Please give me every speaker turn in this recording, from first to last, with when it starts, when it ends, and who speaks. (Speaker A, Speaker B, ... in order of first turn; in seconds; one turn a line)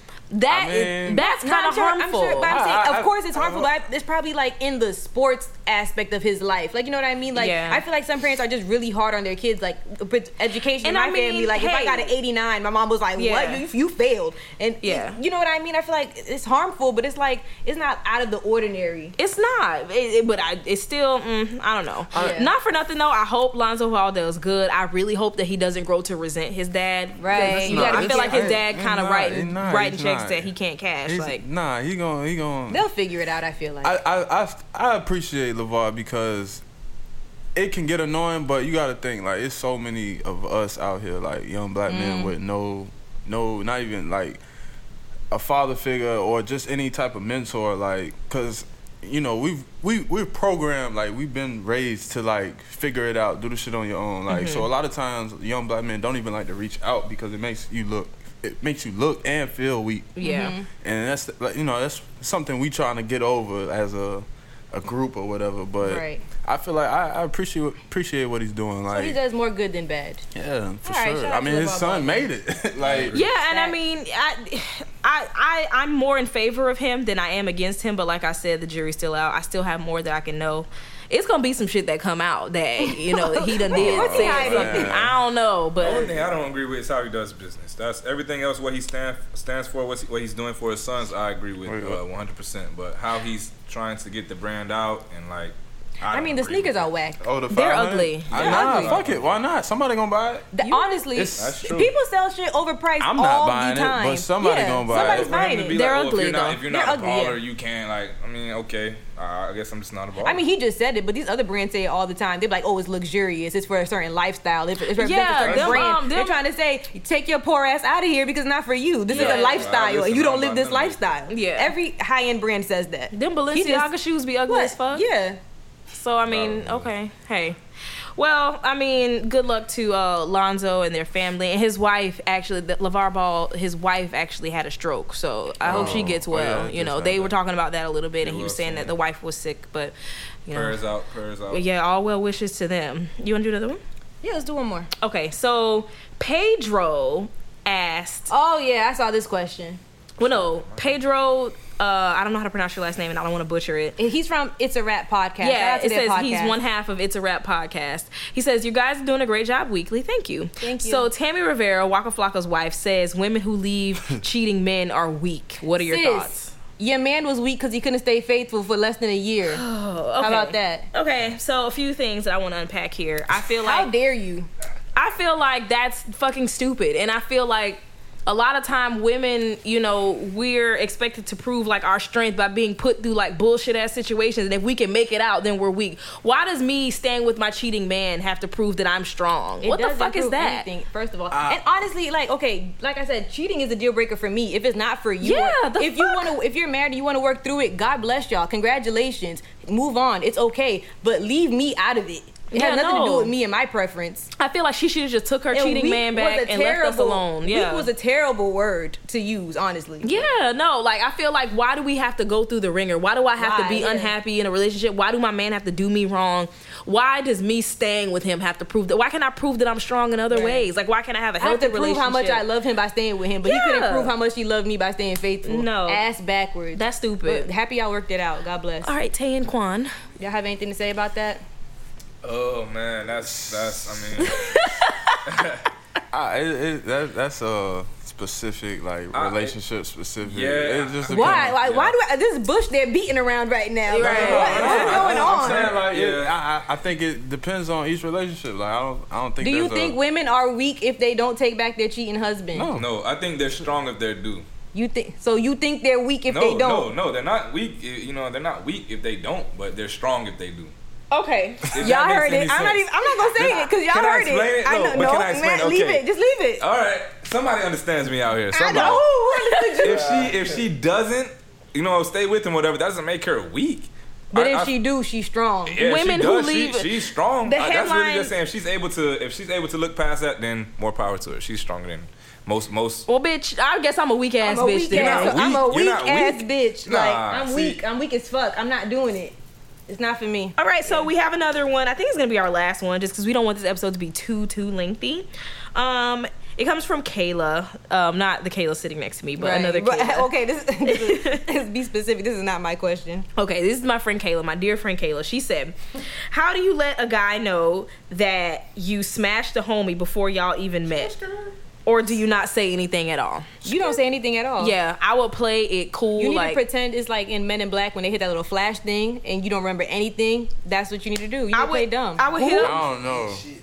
Speaker A: 0.3-2.7
Speaker B: 0.5-1.2
Speaker C: 1.1-19.1
Speaker B: 2.5-3.7
Speaker A: 7.3-7.8
Speaker A: 10.8-12.1
Speaker A: 13.2-13.7
Speaker A: 14.8-15.2
Speaker A: 19.2-31.4
Speaker B: 22.1-22.5
Speaker C: 22.1-22.5
Speaker C: 27.2-28.6
Speaker B: 27.3-30.4
Speaker B: 31.1-32.9
Speaker C: 32.7-34.0
Speaker B: 33.8-36.6
Speaker B: 37.5-44.4
Speaker C: 41.9-42.3
Speaker B: 45.3-60.2
Speaker A: 54.3-54.7
Speaker A: 60.2-60.5
Speaker C: 60.2-60.7
Speaker B: 60.7-69.2
Speaker C: 65.8-66.2
Speaker C: 68.9-70.2
Speaker B: 70.3-73.1
Speaker C: 70.8-72.3
Speaker D: 72.8-73.3
Speaker A: 73.1-86.1
Speaker C: 73.5-73.8
Speaker C: 82.8-85.0
Speaker B: 83.7-85.1
Speaker D: 85.8-96.9
Speaker C: 85.8-86.1
Speaker B: 91.6-92.0
Speaker C: 96.1-97.2
Speaker B: 97.2-100.5
Speaker A: 97.5-98.9
Speaker D: 98.3-99.4
Speaker C: 98.4-98.9
Speaker C: 100.5-105.8
Speaker B: 101.1-101.6
Speaker D: 101.3-101.9
Speaker B: 103.0-105.3
Speaker D: 104.9-110.4
Speaker A: 105.7-106.6
Speaker C: 106.6-107.4
Speaker C: 110.2-123.9
Speaker A: 115.0-116.4
Speaker D: 115.4-115.9
Speaker D: 119.1-121.1
Speaker A: 119.1-119.7
Speaker A: 121.3-121.7
Speaker A: 123.1-125.0
Speaker C: 124.5-125.4
Speaker A: 125.9-127.6
Speaker D: 126.2-126.9
Speaker A: 128.2-139.9
Speaker D: 135.6-136.1
Speaker B: 135.6-137.3
Speaker D: 138.2-138.9
Speaker A: 140.4-140.8
Speaker D: 140.5-141.6
Speaker A: 141.5-143.8
Speaker C: 144.2-144.9
Speaker A: 145.0-148.3
Speaker C: 148.3-149.8
Speaker A: 150.2-154.0
Speaker D: 150.2-150.9
Speaker C: 154.0-156.6
Speaker A: 155.4-166.5
Speaker C: 160.6-161.1
Speaker C: 165.8-169.6
Speaker A: 169.5-173.9
Speaker C: 170.2-170.9
Speaker C: 173.6-174.5
Speaker A: 174.9-190.7
Speaker C: 189.6-204.3
Speaker B: 191.3-191.6
Speaker A: 195.2-196.3
Speaker A: 202.5-203.3
Speaker A: 204.4-207.9
Speaker C: 205.5-210.3
Speaker A: 210.0-222.4
Speaker C: 213.4-214.1
Speaker C: 220.3-220.7
Speaker C: 221.4-228.9
Speaker A: 223.4-224.1
Speaker A: 225.4-226.0
Speaker A: 226.7-227.5
Speaker A: 228.8-229.9
Speaker C: 230.2-231.4
Speaker D: 232.2-234.7
Speaker B: 233.2-234.3
Speaker A: 234.3-235.2
Speaker D: 235.2-235.7
Speaker B: 236.1-241.6
Speaker D: 239.1-239.5
Speaker D: 240.2-241.9
Speaker C: 241.1-245.7
Speaker A: 243.9-245.0
Speaker D: 244.0-246.3
Speaker B: 244.0-250.0
Speaker C: 249.4-252.7
Speaker B: 252.5-252.9
Speaker D: 252.7-254.4
Speaker C: 254.7-256.9
Speaker D: 256.3-260.7
Speaker A: 261.1-261.7
Speaker D: 261.7-266.0
Speaker C: 261.8-266.6
Speaker D: 266.6-269.0
Speaker C: 268.5-270.3
Speaker A: 268.7-269.9
Speaker D: 269.8-274.7
Speaker C: 274.3-275.8
Speaker D: 275.6-283.1
Speaker A: 275.8-278.3
Speaker A: 283.1-285.5
Speaker C: 284.4-289.3
Speaker D: 284.9-287.8
Speaker C: 289.9-291.1
Speaker A: 290.6-300.3
Speaker C: 299.4-303.3
Speaker A: 300.8-301.4
Speaker A: 303.4-311.1
Speaker A: 311.8-313.6
Speaker C: 313.6-314.7
Speaker A: 314.6-316.6
Speaker C: 316.2-322.8
Speaker A: 321.5-322.8
Speaker B: 322.6-323.4